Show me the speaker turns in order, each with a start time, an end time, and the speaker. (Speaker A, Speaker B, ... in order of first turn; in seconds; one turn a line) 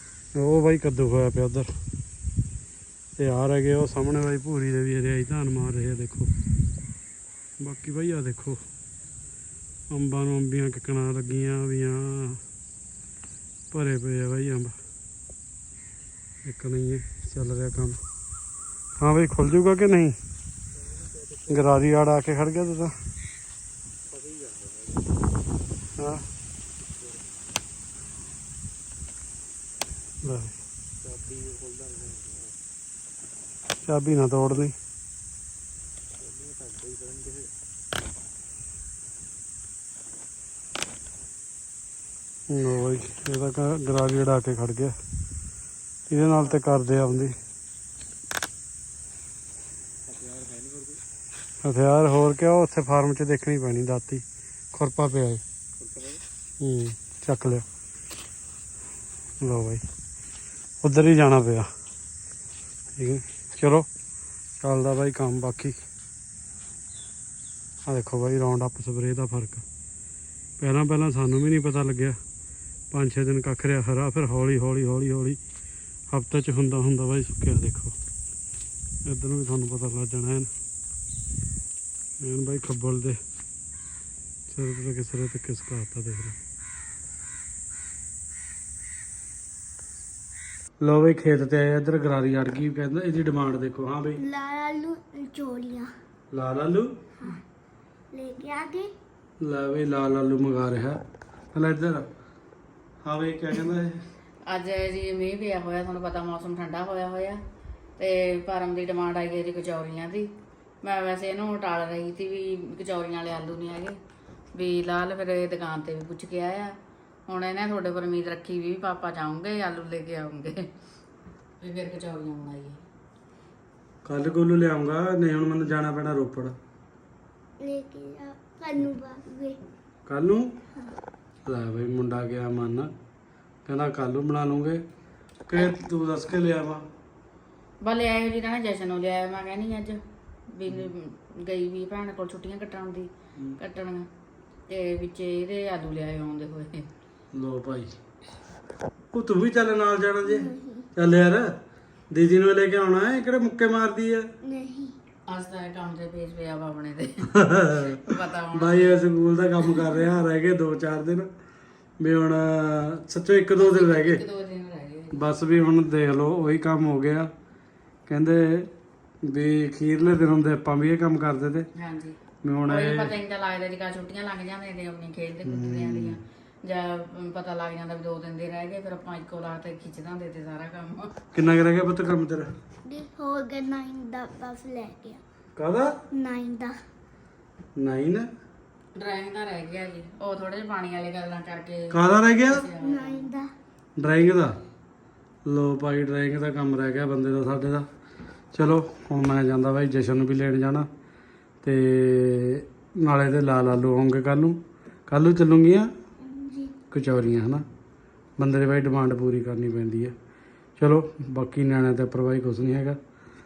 Speaker A: 0.3-1.7
Speaker A: 3.2-6.3
Speaker A: 7.6-8.6
Speaker A: 9.9-12.4
Speaker A: 13.7-14.8
Speaker A: 16.4-18.0
Speaker A: 19.0-20.1
Speaker A: 21.5-22.9
Speaker B: 24.1-25.0
Speaker A: 26.0-26.2
Speaker A: 30.2-30.5
Speaker B: 31.0-32.5
Speaker A: 33.8-34.7
Speaker B: 36.2-37.5
Speaker A: 42.5-45.0
Speaker A: 46.1-47.4
Speaker B: 50.1-51.0
Speaker A: 51.6-55.4
Speaker B: 55.8-56.1
Speaker A: 56.6-57.6
Speaker A: 59.4-59.8
Speaker A: 60.8-61.7
Speaker A: 63.0-63.9
Speaker A: 64.6-65.8
Speaker A: 67.8-69.6
Speaker A: 70.6-72.2
Speaker A: 72.9-75.4
Speaker A: 76.1-77.9
Speaker A: 79.0-80.5
Speaker A: 82.2-83.2
Speaker A: 84.5-86.4
Speaker A: 90.8-94.2
Speaker C: 94.2-95.9
Speaker A: 96.3-96.9
Speaker C: 97.2-97.4
Speaker C: 98.1-98.9
Speaker A: 99.4-101.0
Speaker A: 101.5-102.1
Speaker A: 103.0-104.0
Speaker D: 104.5-107.4
Speaker D: 108.0-110.3
Speaker D: 110.8-114.0
Speaker D: 114.5-116.8
Speaker D: 117.3-120.7
Speaker D: 121.6-122.8
Speaker A: 124.0-126.5
Speaker C: 127.6-129.6
Speaker A: 130.1-130.5
Speaker A: 131.4-132.9
Speaker A: 133.6-134.8
Speaker A: 135.5-136.8
Speaker D: 137.8-144.1
Speaker D: 144.7-146.9
Speaker A: 147.3-147.9
Speaker A: 149.1-151.5
Speaker C: 150.2-150.9
Speaker A: 152.1-154.3
Speaker C: 154.4-155.0
Speaker D: 155.3-159.0
Speaker A: 157.3-157.8
Speaker A: 158.5-161.3
Speaker A: 162.0-164.2
Speaker D: 163.6-165.1
Speaker A: 165.1-167.3
Speaker A: 168.1-168.7
Speaker A: 169.2-171.7
Speaker D: 171.8-181.1
Speaker A: 172.4-173.1
Speaker A: 175.4-176.2
Speaker A: 181.3-182.5
Speaker C: 182.8-185.2
Speaker A: 185.6-185.9
Speaker C: 186.1-186.8
Speaker A: 187.8-188.3
Speaker D: 188.9-191.9
Speaker A: 191.9-192.7
Speaker D: 192.4-193.3
Speaker C: 192.8-193.5
Speaker A: 194.0-194.6
Speaker A: 195.4-197.9
Speaker A: 198.5-200.9
Speaker A: 201.6-205.9
Speaker C: 206.2-206.7
Speaker A: 206.9-207.6
Speaker A: 208.4-210.1
Speaker A: 210.8-213.0